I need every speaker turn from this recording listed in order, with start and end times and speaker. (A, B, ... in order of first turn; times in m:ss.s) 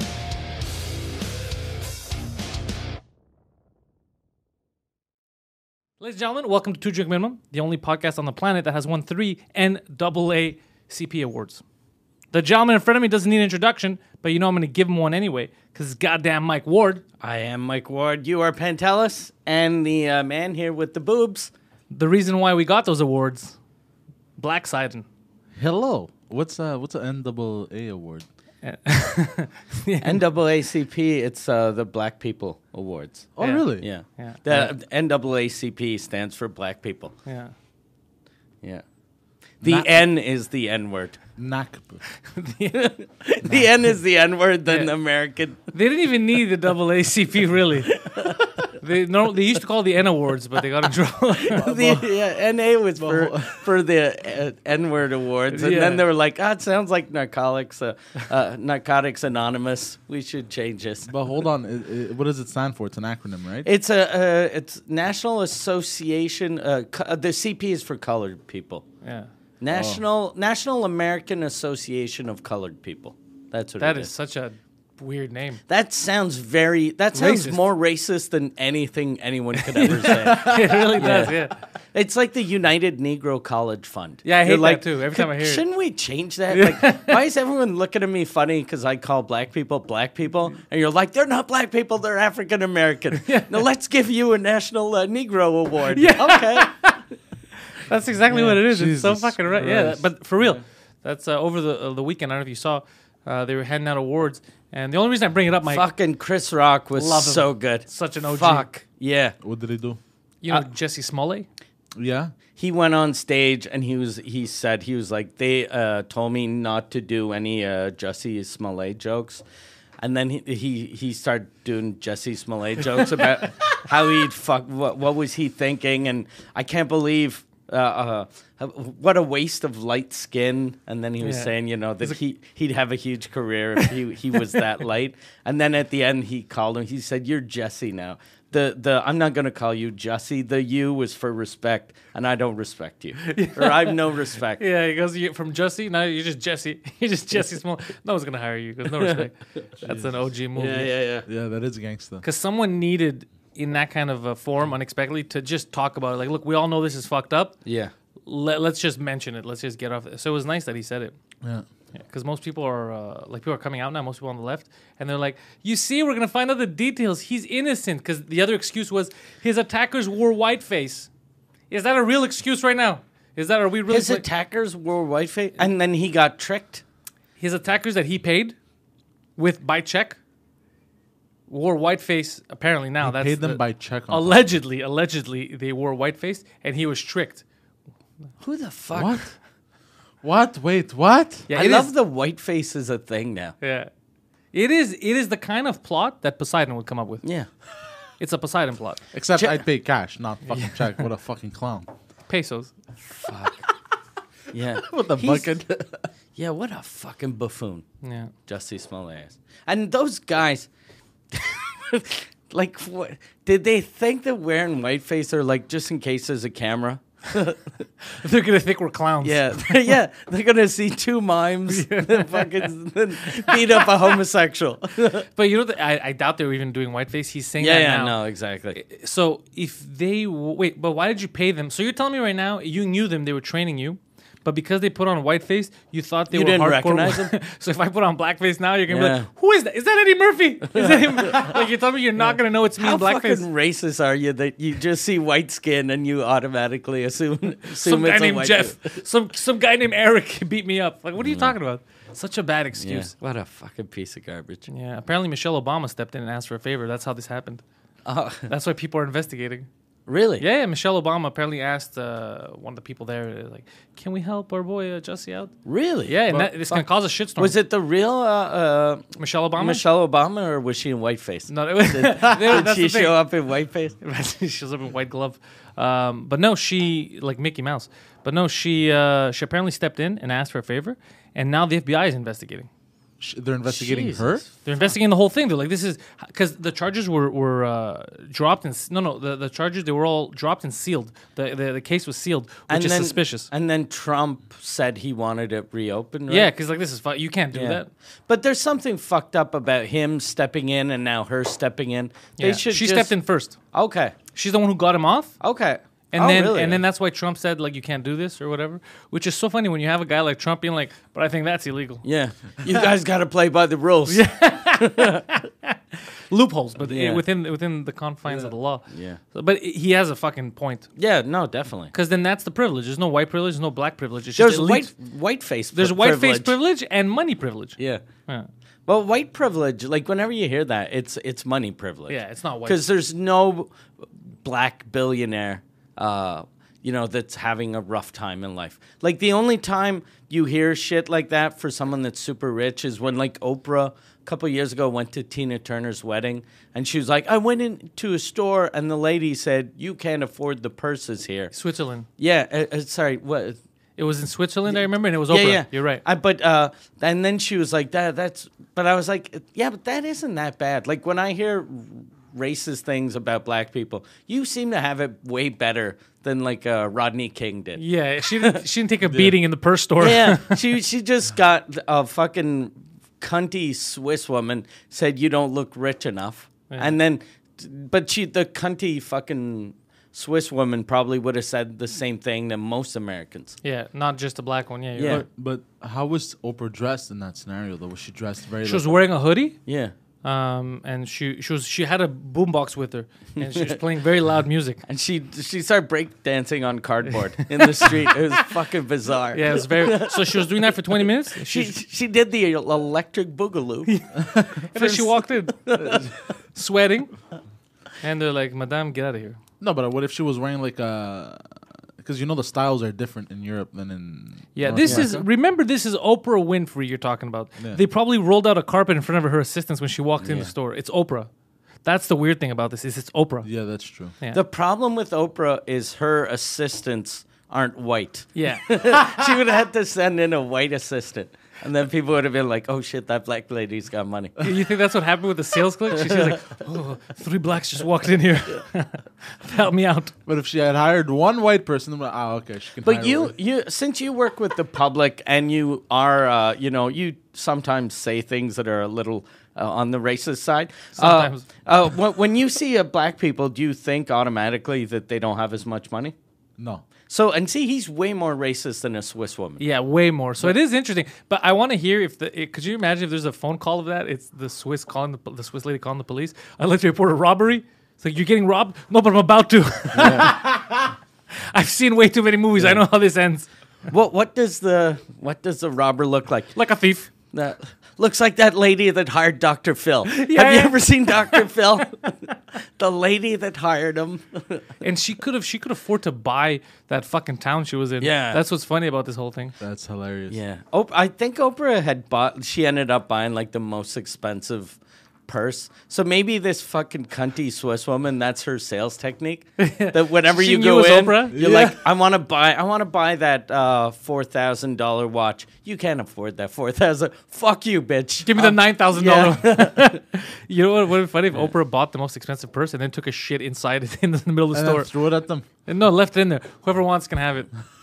0:06.0-0:11.6 A
0:12.3-0:17.0 A
0:17.2-0:21.5 B
0:21.9-0:23.6 A
0:24.4-0:25.0 A
0:25.5-0:28.2 C
0:28.6-0:30.2 A
0:30.0-0:37.1 B
0:33.4-0:33.8 C
0:33.4-0:34.7 A
0:37.2-0:37.5 A
0:39.6-0:41.2 B
0:39.6-0:39.9 C
0:41.4-0:42.0 C
0:42.3-0:42.8 A
0:42.7-0:45.6 B
0:44.6-0:44.9 A
0:45.7-0:51.7 A
0:48.0-0:48.4 B
0:51.4-1:01.1 B
0:51.6-0:52.1 C
0:53.0-0:53.6 C
0:55.5-0:56.0 A
1:01.0-1:03.7 C
1:03.6-1:08.8 B
1:09.0-1:09.3 A
1:09.6-1:14.1 B
1:09.7-1:10.0 C
1:13.8-1:15.6 A
1:15.7-1:36.8 B
1:17.1-1:17.6 A
1:19.6-1:21.6 A
1:24.2-1:25.6 A
1:26.5-1:27.2 A
1:33.2-1:33.6 A
1:35.9-1:37.0 A
1:37.8-1:45.9 A
1:38.3-1:40.6 C
1:45.7-1:49.4 B
1:46.9-1:48.7 A
1:49.4-1:50.0 C
1:50.4-1:51.5 A
1:52.0-1:52.3 C
1:52.6-1:59.4 B
2:00.0-2:24.6 B
2:11.2-2:12.2 A
2:23.3-2:24.0 A
2:24.6-2:30.9 A
2:28.9-2:29.3 B
2:30.6-2:31.2 B
2:31.2-2:32.2 C
2:32.2-2:37.6 A
2:37.6-2:37.9 B
2:38.2-2:41.1 A
2:42.0-2:51.1 A
2:51.7-2:54.2 A
2:53.9-2:56.8 B
2:57.4-2:58.5 A
2:59.4-3:00.2 A
3:01.5-3:07.4 A
3:03.0-3:04.4 C
3:08.4-3:09.3 B
3:08.9-3:09.3 C
3:10.2-3:11.5 C
3:11.5-3:11.9 A
3:11.5-3:13.5 B
3:13.6-3:13.9 A
3:14.5-3:17.2 A
3:17.2-3:17.5 B
3:18.2-3:19.0 A
3:19.1-3:21.9 C
3:20.5-3:20.9 A
3:22.3-3:22.7 A
3:23.1-3:23.6 B
3:24.5-3:25.5 B
3:24.8-3:26.1 C
3:26.4-3:27.8 B
3:28.0-3:28.3 A
3:28.5-3:30.7 B
3:31.3-3:37.7 B
3:38.1-3:40.0 A
3:39.2-3:45.2 B
3:41.7-3:42.7 A
3:43.3-3:44.1 A
3:45.3-3:48.2 A
3:47.6-3:48.8 B
3:48.7-4:03.4 A
3:56.3-3:57.3 B
3:58.9-3:59.3 B
4:00.7-4:01.5 B
4:02.8-4:09.0 B
4:07.7-4:13.1 A
4:11.2-4:11.5 B
4:12.8-4:14.7 B
4:14.7-4:17.6 A
4:18.0-4:18.5 B
4:18.5-4:19.7 A
4:20.1-4:20.4 B
4:20.4-4:25.5 A
4:25.6-4:26.2 B
4:26.1-4:27.6 A
4:26.3-4:26.5 C
4:27.4-4:33.9 B
4:29.2-4:29.8 A
4:31.5-4:33.2 A
4:34.0-4:42.7 A
4:43.2-4:44.4 C
4:43.7-4:44.6 B
4:44.6-4:53.5 A
4:52.7-4:56.5 B
4:56.3-4:57.9 A
4:57.5-5:03.1 B
5:02.4-5:03.6 A
5:03.7-5:04.2 B
5:04.3-5:05.4 A
5:05.4-5:06.8 B
5:06.1-5:12.0 A
5:12.0-5:15.2 B
5:14.1-5:20.9 A
5:16.8-5:17.2 B
5:18.3-5:19.2 B
5:21.0-5:21.9 B
5:21.9-5:24.9 A
5:24.4-5:26.5 B
5:25.7-5:28.5 A
5:27.8-5:28.0 B
5:28.9-5:33.7 B
5:32.1-5:32.8 A
5:34.4-5:51.5 B
5:51.5-5:52.1 A
5:52.2-5:53.6 B
5:54.0-5:56.0 A
5:54.7-6:07.8 B
6:07.8-6:10.6 A
6:09.0-6:09.4 C
6:10.0-6:23.6 B
6:16.7-6:17.0 A
6:23.6-6:25.2 A
6:25.0-6:25.2 B
6:25.1-6:29.0 C
6:28.6-6:29.6 A
6:29.6-6:29.9 B
6:30.2-6:34.8 A
6:33.4-6:33.8 B
6:34.8-6:40.8 B
6:37.6-6:38.0 A
6:39.3-6:41.8 A
6:41.3-6:44.0 B
6:43.9-6:46.0 A
6:44.3-6:44.6 C
6:44.7-6:46.1 B
6:45.8-6:46.1 C
6:46.5-6:47.1 A
6:48.0-6:49.4 A
6:49.6-6:51.4 C
6:52.0-6:55.3 C
6:54.5-7:01.3 A
7:00.2-7:00.5 B
7:01.8-7:03.5 A
7:03.4-7:04.1 C
7:04.3-7:14.4 B
7:08.4-7:09.3 A
7:14.4-7:20.1 A
7:20.2-7:23.3 C
7:22.8-7:36.1 B
7:31.0-7:31.5 A
7:36.6-7:36.8 C
7:37.1-7:39.6 B
7:39.6-7:53.5 A
7:50.0-7:50.3 C
7:53.9-7:56.5 B
7:56.5-7:57.1 A
7:57.3-8:02.0 B
8:00.1-8:01.5 A
8:02.8-8:04.6 B
8:04.8-8:09.5 A
8:08.0-8:08.4 B
8:09.6-8:10.4 C
8:10.3-8:29.9 B
8:19.6-8:21.4 A
8:21.3-8:21.8 C
8:28.2-8:37.5 A
8:34.5-8:35.4 C